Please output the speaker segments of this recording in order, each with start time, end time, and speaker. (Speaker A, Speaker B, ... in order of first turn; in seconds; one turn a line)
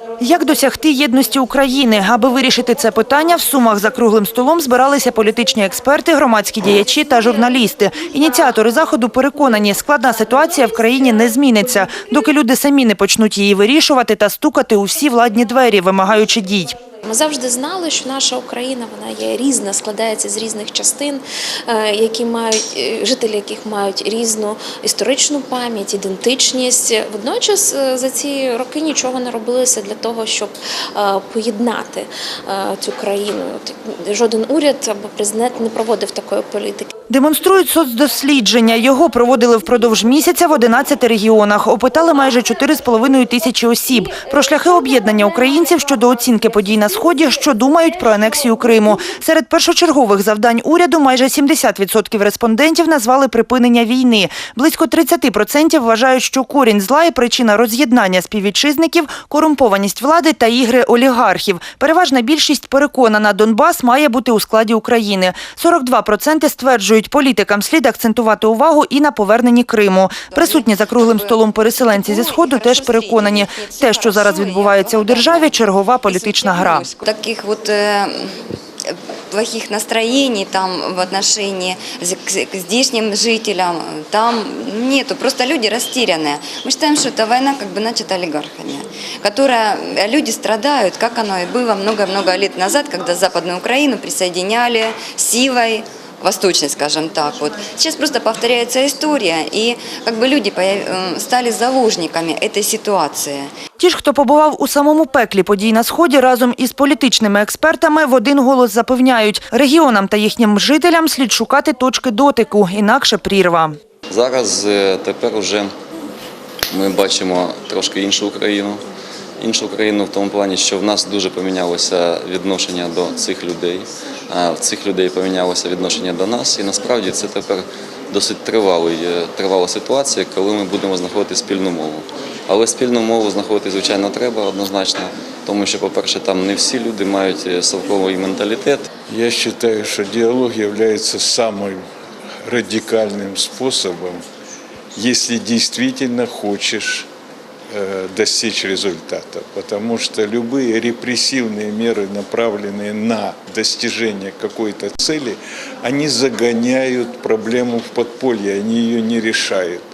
Speaker A: 0.2-16.8
Speaker B: 17.1-36.9
Speaker A: 37.1-76.9
Speaker C: 70.3-103.5
Speaker A: 103.8-113.8
Speaker D: 114.1-115.7
Speaker D: 116.7-118.8
Speaker D: 119.4-138.9
Speaker E: 139.1-141.8
Speaker E: 142.4-144.2
Speaker E: 144.9-147.1
Speaker E: 147.7-159.8